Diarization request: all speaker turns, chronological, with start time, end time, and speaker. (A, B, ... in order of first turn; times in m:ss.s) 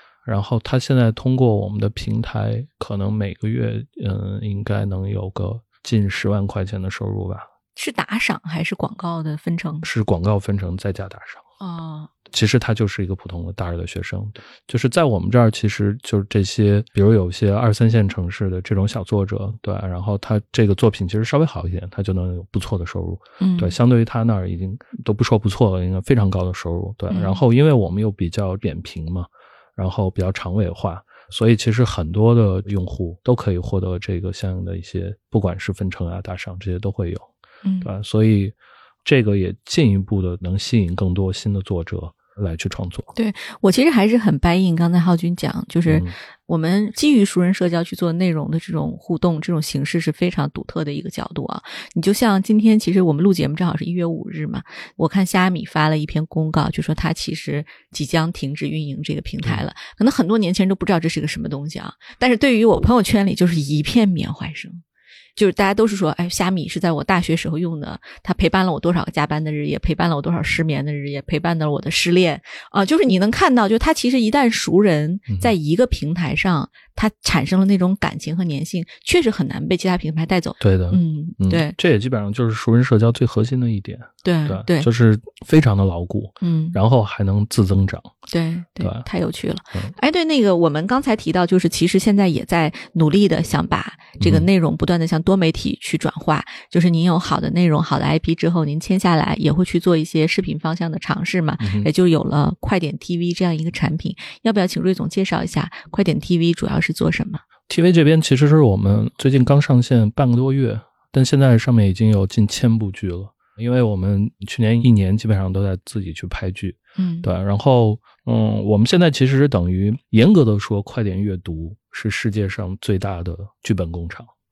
0:00.2-0:07.5 A
0:07.7-0:09.8 B
0:09.8-0:11.4 A
0:11.6-0:12.1 B
0:12.3-0:37.2 A
0:23.4-0:23.8 B
0:27.1-0:27.4 B
0:37.6-0:37.9 B
0:37.8-0:43.1 A
0:43.1-1:04.8 B
0:45.8-0:46.1 A
1:05.4-1:21.7 B
1:20.6-1:28.1 A
1:24.2-1:24.9 B
1:26.4-1:26.8 B
1:28.3-1:47.4 B
1:28.8-1:29.0 A
1:34.2-1:34.5 A
1:41.6-1:41.9 A
1:47.7-2:04.3 A
1:57.0-1:57.3 B